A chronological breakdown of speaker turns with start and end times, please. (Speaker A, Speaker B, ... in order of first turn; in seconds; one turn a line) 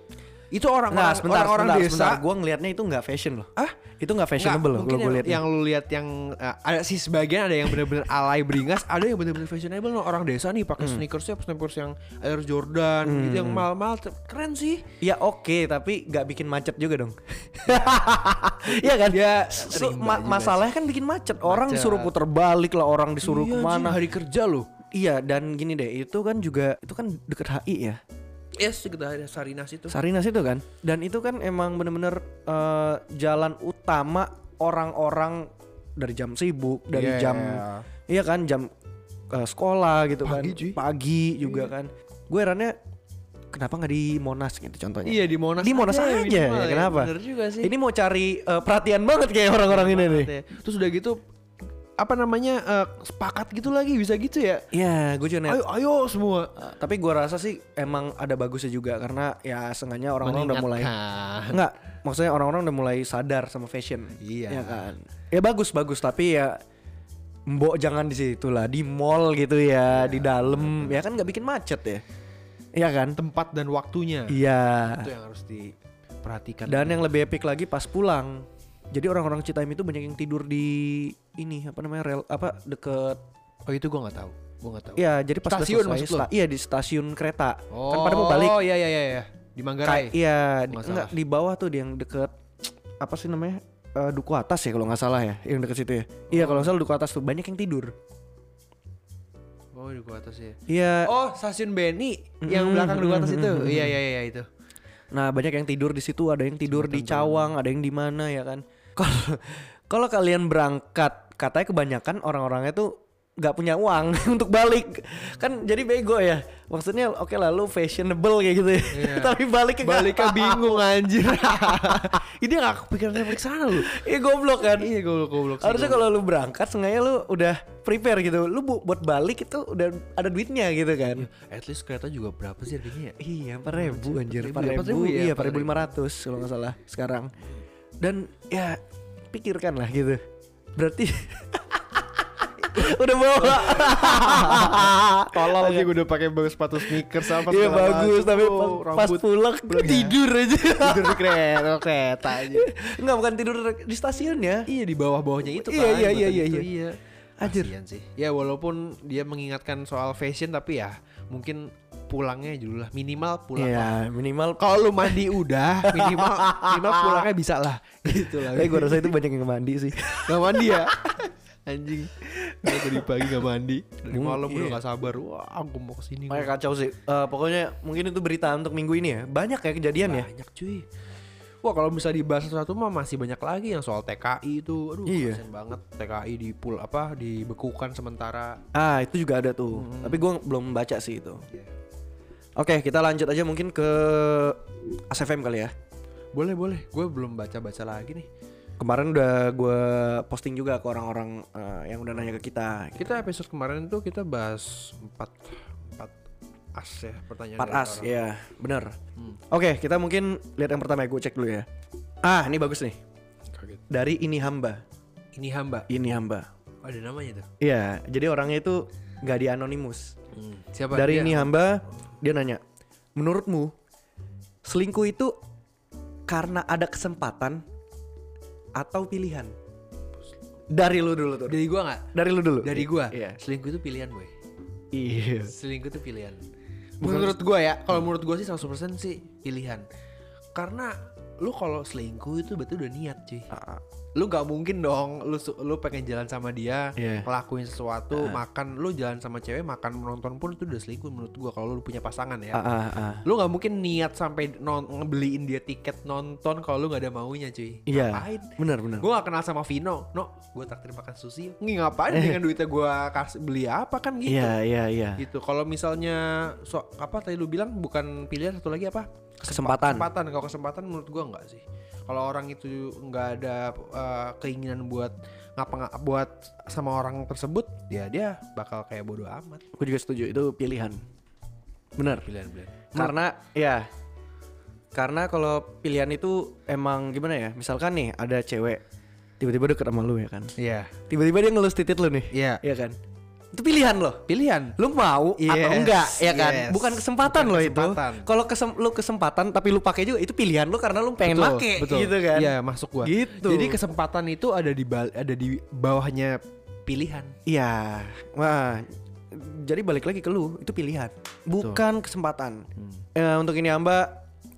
Speaker A: 0.5-2.2
Speaker B: 0.9-5.4
Speaker A: 4.4-14.8
Speaker B: 10.8-11.0
Speaker B: 13.0-13.7
Speaker B: 15.0-24.0
Speaker A: 17.6-18.1
Speaker A: 18.6-20.6
Speaker A: 21.4-22.1
Speaker A: 23.2-24.7
Speaker B: 24.9-28.0
Speaker A: 28.6-29.9
Speaker B: 29.9-38.7
Speaker A: 36.9-37.9
Speaker B: 39.3-42.8
Speaker A: 40.2-40.8
Speaker B: 43.5-50.3
Speaker A: 45.0-47.7
Speaker A: 49.7-51.2
Speaker A: 52.0-54.7
Speaker B: 54.7-55.6
Speaker A: 55.5-56.5
Speaker B: 56.6-60.9
Speaker A: 60.2-61.6
Speaker B: 61.5-66.6
Speaker A: 64.2-64.9
Speaker B: 67.5-72.0
Speaker A: 69.9-71.0
Speaker B: 72.7-73.2
Speaker A: 73.2-77.0
Speaker B: 74.3-75.1
Speaker B: 76.7-83.2
Speaker A: 83.7-86.3
Speaker B: 85.0-88.6
Speaker A: 87.7-91.1
Speaker B: 89.8-92.3
Speaker B: 93.0-97.9
Speaker A: 96.3-96.7
Speaker A: 99.7-104.5
Speaker B: 100.7-101.1
Speaker B: 102.4-104.0
Speaker B: 105.1-120.8
Speaker A: 106.7-107.5
Speaker A: 118.9-124.0
Speaker B: 121.5-122.2
Speaker B: 123.3-124.9
Speaker A: 124.6-126.0
Speaker B: 125.6-131.3
Speaker A: 131.2-133.2
Speaker B: 133.2-137.3
Speaker A: 133.7-135.9
Speaker B: 138.0-138.8
Speaker B: 139.3-140.2
Speaker B: 140.8-145.9
Speaker A: 142.7-152.7
Speaker B: 146.8-151.7
Speaker B: 152.3-154.7
Speaker A: 154.7-164.0
Speaker B: 155.4-156.7
Speaker B: 157.4-157.7
Speaker B: 163.6-165.3
Speaker A: 164.6-169.1
Speaker B: 165.8-167.3
Speaker B: 168.3-171.2
Speaker A: 170.1-176.5
Speaker B: 172.6-173.3
Speaker B: 174.1-174.8
Speaker B: 176.3-180.3
Speaker A: 180.0-180.8
Speaker A: 181.6-188.6
Speaker B: 185.1-185.4
Speaker B: 188.7-191.4
Speaker A: 189.7-190.2
Speaker B: 192.6-195.7
Speaker A: 196.3-198.3
Speaker B: 198.8-203.2
Speaker A: 203.0-206.1
Speaker A: 206.7-208.2
Speaker B: 207.6-208.9
Speaker B: 209.5-211.7
Speaker B: 212.2-213.0
Speaker A: 213.5-213.8
Speaker B: 213.9-214.8
Speaker A: 215.3-215.9
Speaker B: 215.9-216.5
Speaker A: 216.8-217.5
Speaker B: 217.6-220.1
Speaker A: 220.3-221.5
Speaker B: 220.9-222.6
Speaker B: 223.2-223.7
Speaker B: 224.6-225.3
Speaker B: 226.3-227.6
Speaker B: 228.8-229.5
Speaker B: 230.7-231.6
Speaker A: 231.5-234.3
Speaker B: 232.1-233.4
Speaker B: 234.9-235.5
Speaker A: 235.5-236.5
Speaker A: 237.0-239.8
Speaker B: 237.0-237.3
Speaker A: 240.5-243.5
Speaker B: 243.5-243.8
Speaker A: 244.2-252.7
Speaker B: 247.0-247.3
Speaker B: 248.1-248.4
Speaker B: 252.5-253.2
Speaker A: 253.2-264.6
Speaker B: 257.9-259.1
Speaker B: 262.1-262.4
Speaker B: 264.2-265.2
Speaker A: 265.2-279.6
Speaker B: 269.4-270.1
Speaker B: 279.8-281.0
Speaker B: 282.0-282.3
Speaker A: 282.2-283.1
Speaker B: 282.9-283.9
Speaker B: 284.9-288.8
Speaker B: 289.4-290.5
Speaker A: 290.6-290.9
Speaker B: 291.1-293.0
Speaker A: 292.3-292.6
Speaker B: 293.5-294.2
Speaker A: 294.3-294.8
Speaker B: 294.8-303.8
Speaker A: 295.4-298.3
Speaker A: 301.2-307.3
Speaker B: 307.4-314.2
Speaker A: 312.8-313.0